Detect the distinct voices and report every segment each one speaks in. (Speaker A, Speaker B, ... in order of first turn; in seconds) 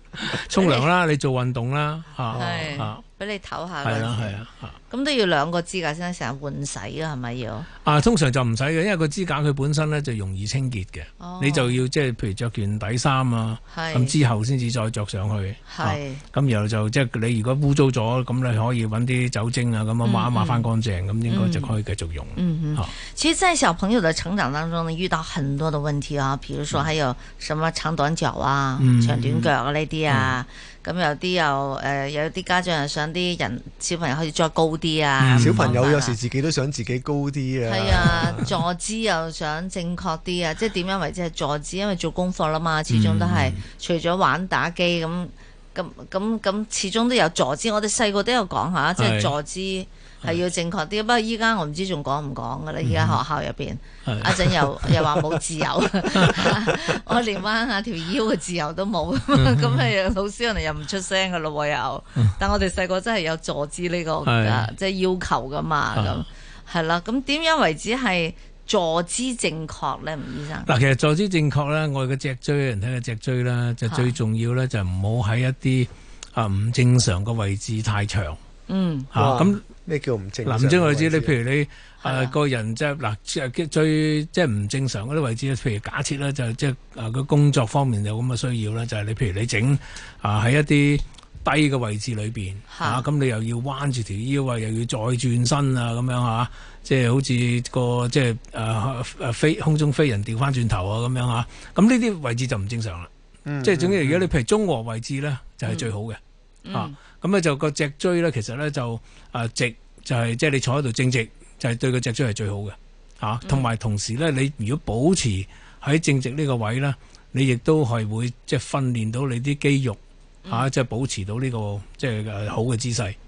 Speaker A: 0.2-3.0, 3.8-4.8, 7.8-22.9, 28.8-29.5, 30.1-30.4, 35.2-35.8, 42.9-43.6, 49.0-49.3, 52.8-53.2, 54.0-55.4, 56.0-57.2, 59.3-59.9, 64.2-64.7, 66.0-66.2, 70.7-78.4, 79.1-79.6, 80.5-103.1, 103.6-106.2, 106.7-123.2
Speaker B: 0.6-0.9, 2.4-4.4, 4.9-7.7, 11.2-11.8, 13.7-14.1, 15.7-16.2, 20.0-20.7, 21.3-21.7, 22.4-36.2, 37.6-70.7, 73.9-74.2, 78.7-79.1, 82.0-82.3, 92.7-93.0, 106.7-107.0, 113.4-113.7
Speaker C: 2.3-2.7, 35.4-38.5, 79.2-81.3, 103.5-104.3